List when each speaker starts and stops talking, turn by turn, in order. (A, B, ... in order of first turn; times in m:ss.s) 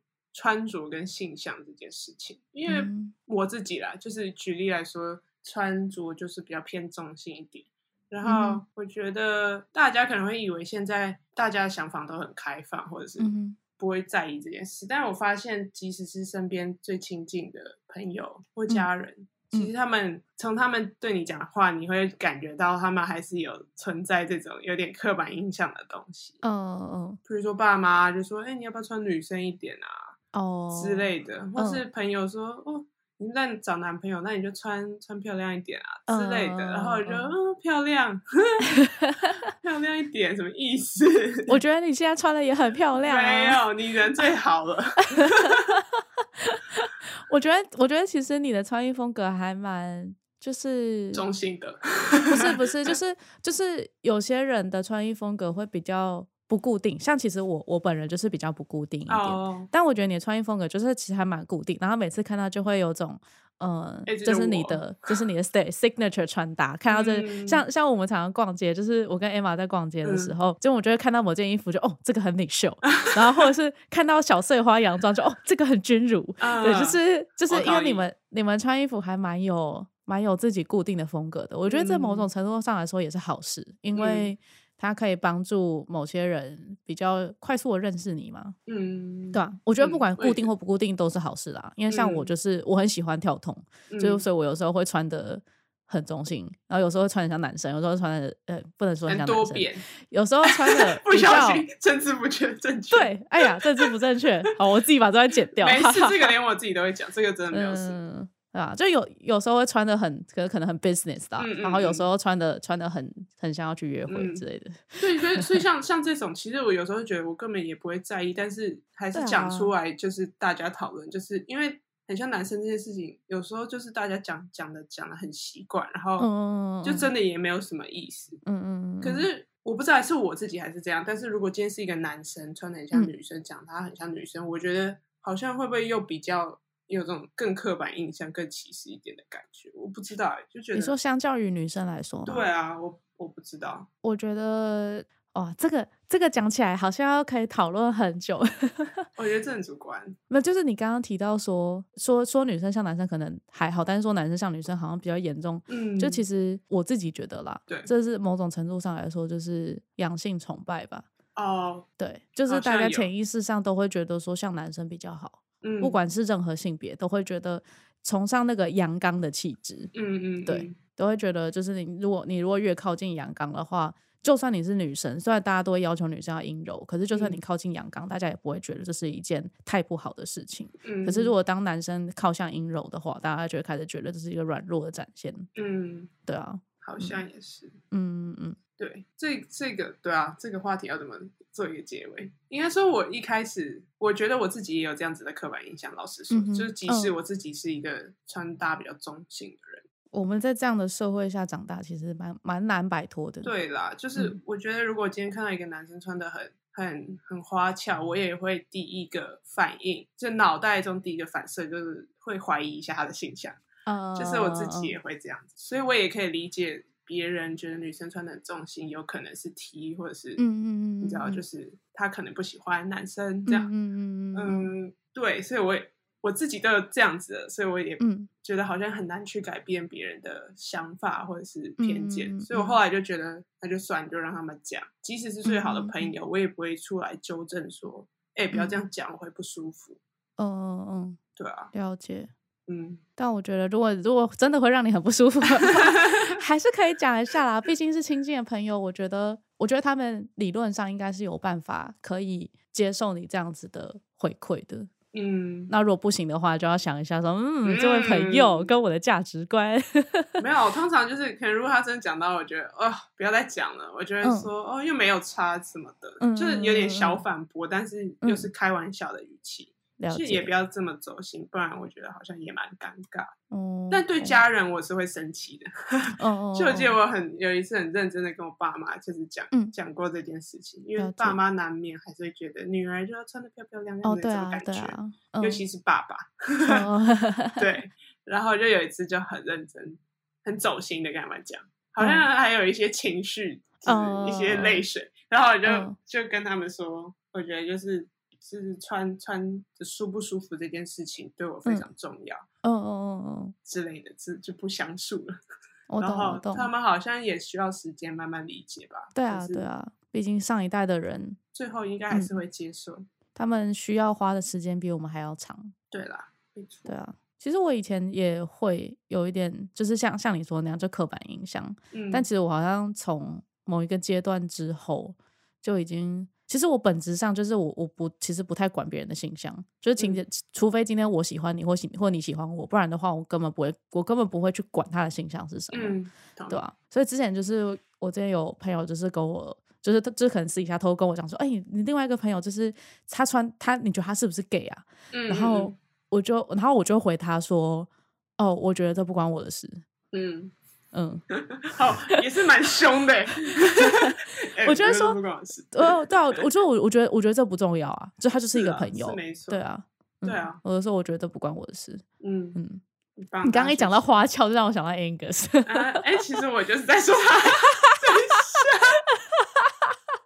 0:00.3-0:26.4 A
0:02.7-0:03.1 B
0:08.2-0:08.6 B
0:13.2-0:13.6 B
0:26.4-0:27.2 B
0:27.2-0:30.2 A
0:30.3-0:31.8 B
0:30.7-0:38.7 A
0:36.1-0:37.3 B
0:38.8-0:39.3 B
0:39.6-0:41.6 A
0:41.5-0:43.6 B
0:43.0-0:45.7 A
0:45.2-0:45.8 B
0:46.4-0:51.2 B
0:51.1-0:52.9 A
0:52.3-1:28.6 B
0:59.1-0:59.7 A
1:04.1-1:04.9 A
1:06.9-1:07.6 A
1:10.0-1:10.3 A
1:16.4-1:18.0 A
1:21.6-1:22.3 A
1:23.9-1:24.3 A
1:28.7-1:30.5 A
1:29.3-1:41.6 B
1:31.9-1:32.3 A
1:33.9-1:34.2 A
1:39.1-1:39.8 A
1:40.4-1:43.9 A
1:42.9-1:46.3 B
1:45.6-1:48.0 A
1:47.5-1:55.4 B
1:51.4-1:52.1 A
1:54.1-1:54.4 A
1:55.0-2:06.3 A
1:59.1-1:59.7 B
2:06.2-2:07.1 B
2:06.8-2:08.4 A
2:08.4-2:09.3 B
2:09.0-2:20.9 A
2:20.7-2:22.5 B
2:22.2-2:23.9 A
2:24.0-2:29.0 B
2:29.2-2:30.2 A
2:30.3-2:41.1 B
2:35.7-2:36.2 A
2:41.4-2:41.9 A
2:42.0-2:49.9 B
2:42.5-2:43.1 A
2:45.6-2:46.0 A
2:49.9-2:50.8 A
2:50.4-3:05.5 B
2:57.1-2:57.4 A
3:00.8-3:01.3 A
3:05.6-3:06.1 A
3:06.2-3:07.2 B
3:06.8-3:07.8 A
3:07.9-3:08.6 B
3:08.8-3:19.8 A
3:16.3-3:17.1 B
3:20.1-3:23.5 B
3:23.4-3:33.6 A
3:33.8-3:34.9 B
3:34.1-3:40.4 A
3:40.4-3:41.4 B
3:41.0-3:43.7 A
3:43.5-3:44.7 B
3:44.3-4:00.0 A
3:48.0-3:48.3 B
3:51.8-3:52.8 B
3:55.4-3:56.1 B
3:58.5-3:58.8 B
4:00.4-4:01.2 B
4:01.4-4:01.7 A
4:01.7-4:02.3 B
4:02.7-4:03.0 A
4:03.2-4:14.9 B
4:05.7-4:06.2 A
4:15.1-4:15.7 A
4:15.7-4:20.4 B
4:17.6-4:18.7 A
4:20.4-4:33.3 A
4:24.2-4:24.5 B
4:26.2-4:27.2 B
4:28.2-4:28.5 B
4:30.0-4:30.5 B
4:33.5-4:34.4 B
4:33.9-4:46.9 A
4:36.2-4:37.0 B
4:41.0-4:41.4 B
4:44.0-4:45.6 B
4:46.7-4:47.6 B
4:47.6-5:02.4 A
4:52.0-4:52.2 B
4:53.8-4:54.8 B
4:55.6-4:56.0 B
5:02.6-5:03.5 B
5:03.6-5:05.4 A
5:05.9-5:06.7 B
5:06.0-5:09.7 A
5:09.1-5:11.4 B
5:11.5-5:13.1 A
5:12.1-5:12.4 B
5:13.3-5:15.7 B
5:15.9-5:16.9 A
5:16.9-5:36.0 B
5:21.9-5:22.3 A
5:35.7-5:36.6 A
5:36.5-5:49.8 B
5:45.1-5:45.7 A
5:50.1-5:50.5 A
5:50.9-5:51.2 B
5:51.5-5:56.4 A
5:53.8-5:54.1 B
5:54.6-5:55.2 B
5:55.7-6:02.0 B
5:58.5-5:59.6 A
6:00.2-6:00.6 A
6:02.2-6:02.6 A
6:02.6-6:02.8 B
6:03.2-6:04.2 A
6:03.4-6:06.0 B
6:05.6-6:09.0 A
6:09.3-6:09.9 B